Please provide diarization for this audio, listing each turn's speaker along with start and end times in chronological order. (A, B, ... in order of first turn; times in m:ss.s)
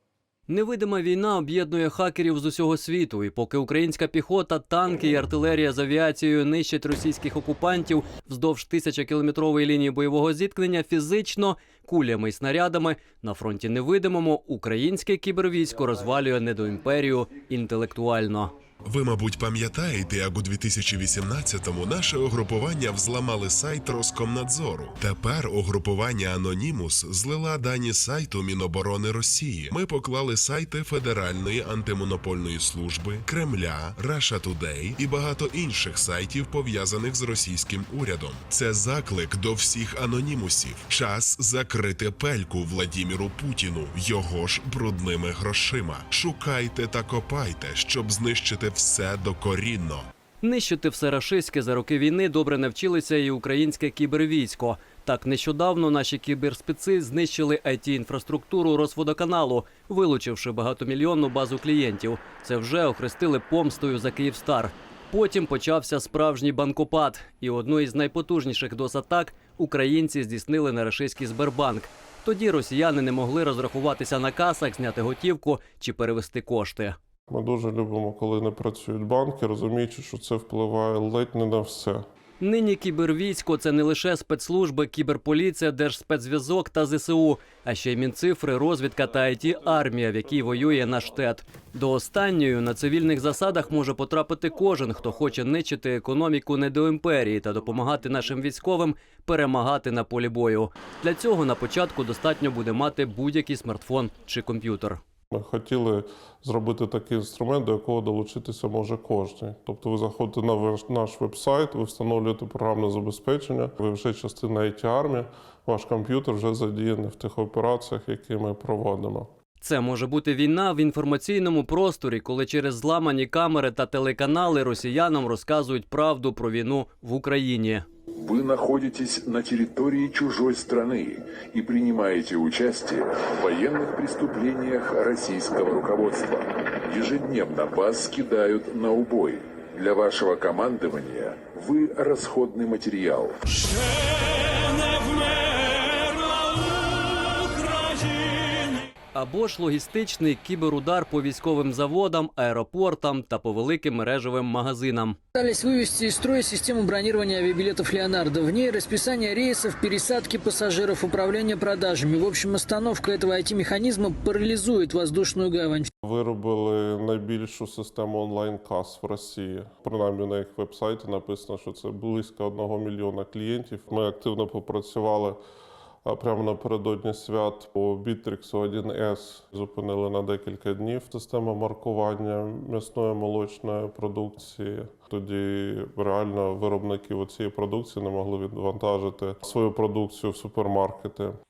0:00.5-0:18.5 A
0:18.8-0:50.0 B
0:50.4-1:17.0 A
1:17.3-1:22.0 C
1:22.4-1:45.0 A
1:45.3-1:59.3 C
1:59.6-2:07.8 A
2:08.2-2:23.4 D
2:25.0-2:26.6 A
2:27.3-2:28.5 A
2:29.1-2:35.2 A
2:35.3-2:45.9 E
2:46.0-2:55.4 C
2:56.0-3:11.3 C